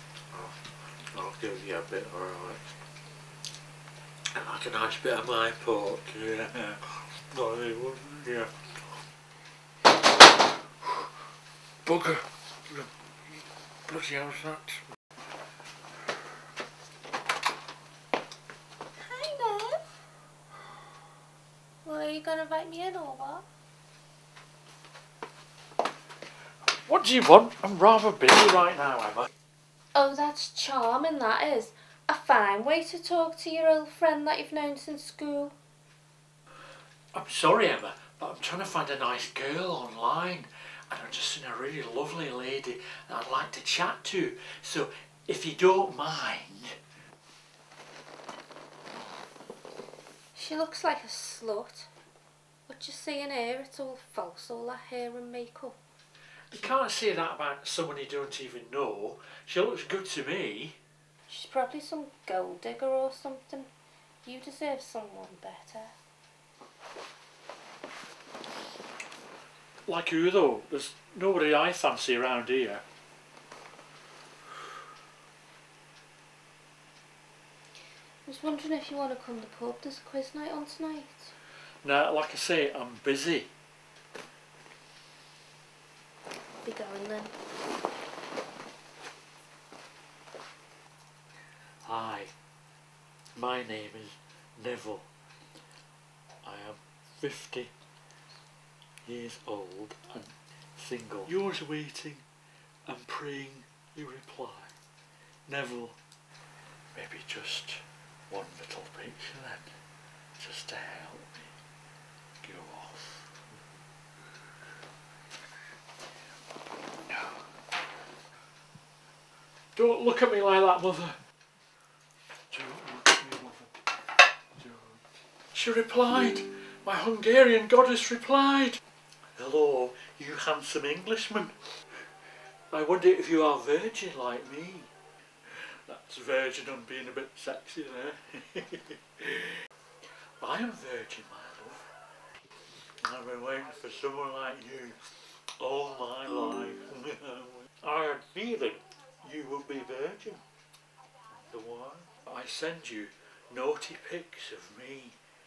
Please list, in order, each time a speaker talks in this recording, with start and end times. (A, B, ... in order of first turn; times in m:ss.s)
0:00.3-0:02.6 A
0:04.3-0:08.5 A
0:11.8-0:12.9 A
0:13.9-0:14.8 A
0:19.0-0:19.9 B
0:21.8-0:23.4 B
0:26.8-0:29.3 A
0:29.9-0:35.5 B
0:37.1-0:46.8 A
0:50.3-0:51.9 B
0:52.7-0:55.8 B
0:56.5-1:00.8 A
1:01.3-1:03.7 B
1:04.2-1:05.9 B
1:09.8-1:12.8 A
1:18.2-1:21.3 B
1:21.8-1:23.5 A
1:26.6-1:27.3 B
1:31.8-1:32.3 A
1:33.4-1:35.1 A
1:36.4-1:37.7 A
1:39.0-1:42.2 A
1:42.9-1:44.7 A
1:45.5-1:46.0 A
1:46.9-1:49.7 A
1:50.4-1:51.5 A
1:52.4-1:53.2 A
1:57.1-1:57.4 A
1:59.7-2:01.2 A
2:02.5-2:03.7 A
2:04.6-2:08.8 A
2:09.4-2:11.6 A
2:12.7-2:14.9 A
2:15.5-2:19.6 A
2:20.4-2:21.9 A
2:23.0-2:30.4 A
2:31.3-2:35.2 A